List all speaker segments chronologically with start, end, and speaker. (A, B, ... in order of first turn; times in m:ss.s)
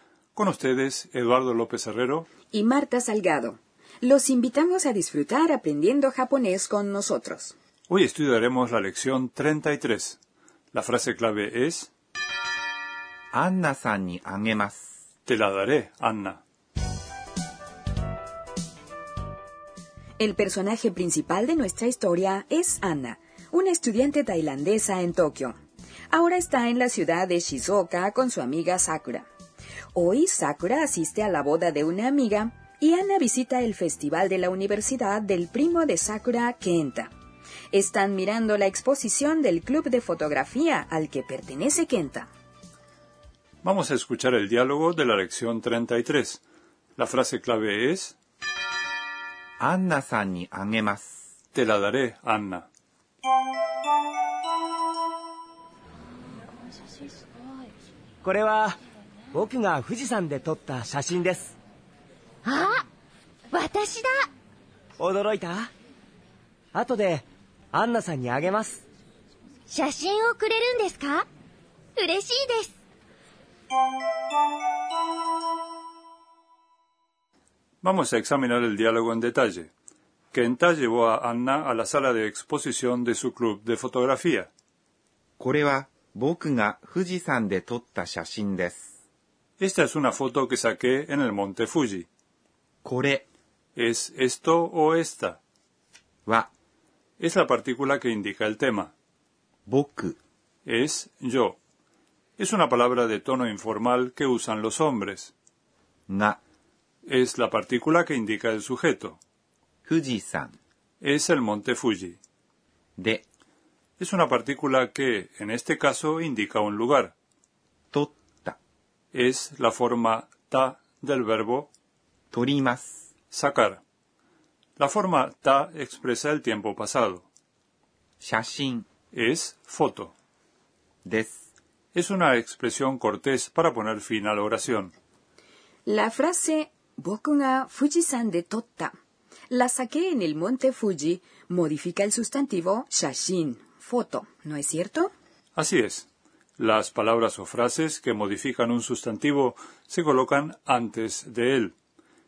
0:00.4-0:02.3 A
0:02.5-0:07.6 B
0:07.9-0:10.2 A
0:10.7-0:11.9 A
0:13.3-0:15.0 C
0:15.3-0:16.4 A
0:20.2-0:25.6 B
0:26.1-0:29.3 B
0:29.9-0:37.1 B
0:37.7-0:42.3 B
0:43.6-0:46.4 A
0:47.0-0:48.2 A
0:49.6-0:51.2 C
0:51.5-0:52.7 A
0:58.2-0:58.8 D
0:59.3-1:01.6 D
1:02.4-1:02.8 E
1:03.5-1:04.3 E
1:05.0-1:05.7 D
1:06.7-1:08.8 D
1:09.7-1:11.3 E
1:12.0-1:12.7 E
1:17.8-1:19.7 A
1:20.3-1:24.5 A
1:25.4-1:28.9 C
1:29.6-1:32.1 A
1:32.8-1:33.2 C
1:33.8-1:35.4 A
1:37.2-1:38.9 A
1:39.7-1:40.2 C
1:40.7-1:41.6 A
1:42.4-1:45.3 A
1:46.1-1:46.4 C
1:47.1-1:49.2 A
1:49.8-1:50.6 C
1:51.0-1:52.2 A
1:53.0-1:53.2 C
1:54.0-1:57.1 A
1:57.9-1:58.6 C
1:59.1-2:01.7 A
2:02.3-2:03.0 C
2:03.3-2:03.8 A
2:04.8-2:07.3 A
2:08.2-2:08.9 C
2:09.1-2:10.1 A
2:11.0-2:11.4 C
2:11.9-2:14.9 A
2:15.9-2:18.9 B
2:19.5-2:25.1 B
2:25.6-2:26.1 A
2:26.6-2:31.7 A